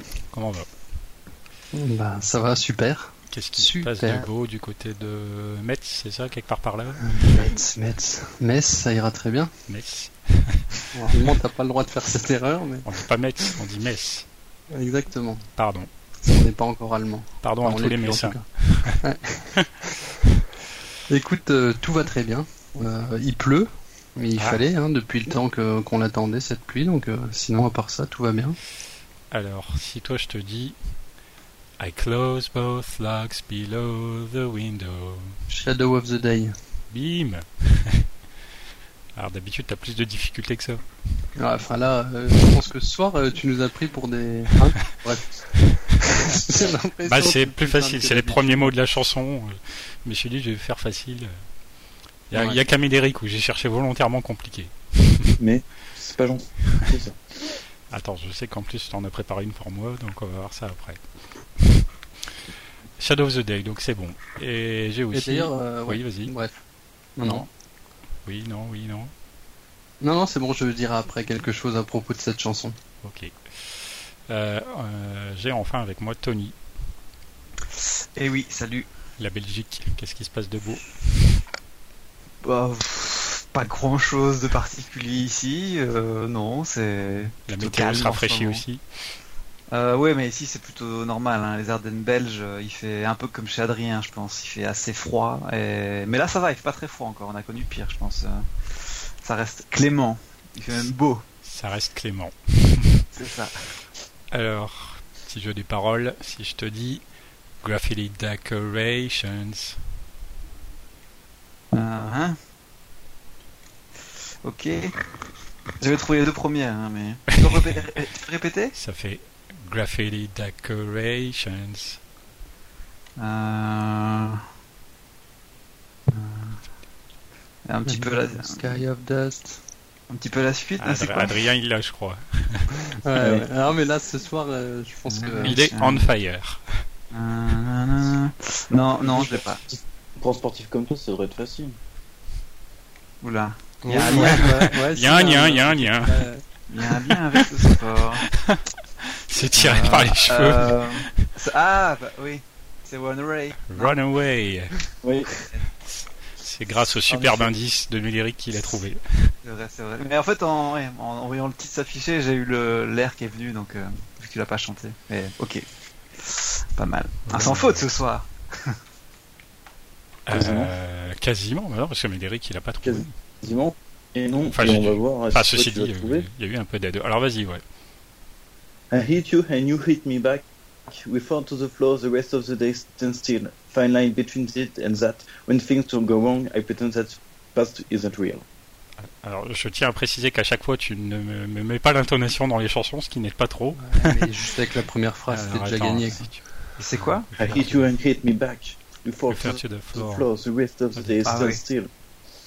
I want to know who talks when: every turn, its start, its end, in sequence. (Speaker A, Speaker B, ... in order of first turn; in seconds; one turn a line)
Speaker A: 0.3-0.7
Speaker B: 1.7-4.3
Speaker A: 3.3-7.5
Speaker B: 7.0-9.5
Speaker A: 9.7-10.8
Speaker B: 11.0-13.0
Speaker A: 12.8-14.3
Speaker B: 14.7-15.5
Speaker A: 15.6-15.9
Speaker B: 16.2-19.6
Speaker A: 17.4-19.0
Speaker B: 21.1-28.6
Speaker A: 24.4-24.6
Speaker A: 29.3-30.8
Speaker A: 31.8-35.4
Speaker B: 35.5-36.6
Speaker A: 36.9-38.1
Speaker A: 39.1-41.3
Speaker B: 41.4-48.7
Speaker A: 47.0-51.4
Speaker A: 52.3-55.4
Speaker C: 55.4-57.2
Speaker A: 57.9-62.3
Speaker A: 63.0-66.3
Speaker B: 65.1-66.6
Speaker B: 67.2-67.5
Speaker A: 67.2-67.5
Speaker A: 68.2-69.1
Speaker B: 70.0-72.8
Speaker A: 73.0-76.6
Speaker D: 77.8-78.9
Speaker A: 79.2-81.4
Speaker D: 82.4-88.6
Speaker A: 87.5-89.2
Speaker D: 89.7-101.2
Speaker A: 101.4-103.1
Speaker D: 103.2-103.7
Speaker A: 104.3-107.0
Speaker A: 107.6-109.8
Speaker D: 111.7-112.4
Speaker D: 114.4-114.9
Speaker D: 115.8-118.7
Speaker A: 117.5-117.8
Speaker A: 118.8-122.0
Speaker D: 123.2-124.5
Speaker D: 126.1-126.6
Speaker D: 127.7-128.8
Speaker B: 127.9-129.6
Speaker D: 130.1-131.4
Speaker A: 130.8-132.7
Speaker B: 132.9-135.6
Speaker C: 133.2-133.5
Speaker D: 135.1-136.1
Speaker A: 135.4-136.9
Speaker D: 137.1-139.6
Speaker C: 139.0-141.8
Speaker D: 143.2-144.7
Speaker B: 143.8-146.4
Speaker A: 143.9-146.3
Speaker D: 146.7-148.3
Speaker A: 146.8-147.8
Speaker A: 149.3-151.3
Speaker D: 149.6-154.0
Speaker A: 153.7-154.7
Speaker D: 154.7-155.6
Speaker C: 155.0-155.3
Speaker A: 156.3-159.3
Speaker D: 157.1-157.5
Speaker D: 159.4-168.8
Speaker A: 167.3-167.9
Speaker A: 170.3-173.1
Speaker C: 170.3-170.7
Speaker C: 172.8-176.3
Speaker A: 174.5-177.6
Speaker C: 178.9-188.4
Speaker A: 189.0-194.3
Speaker B: 193.8-196.4
Speaker A: 195.3-197.9
Speaker D: 196.8-197.6
Speaker C: 197.4-201.9
Speaker A: 199.3-200.3
Speaker A: 201.0-201.4
Speaker D: 201.2-201.6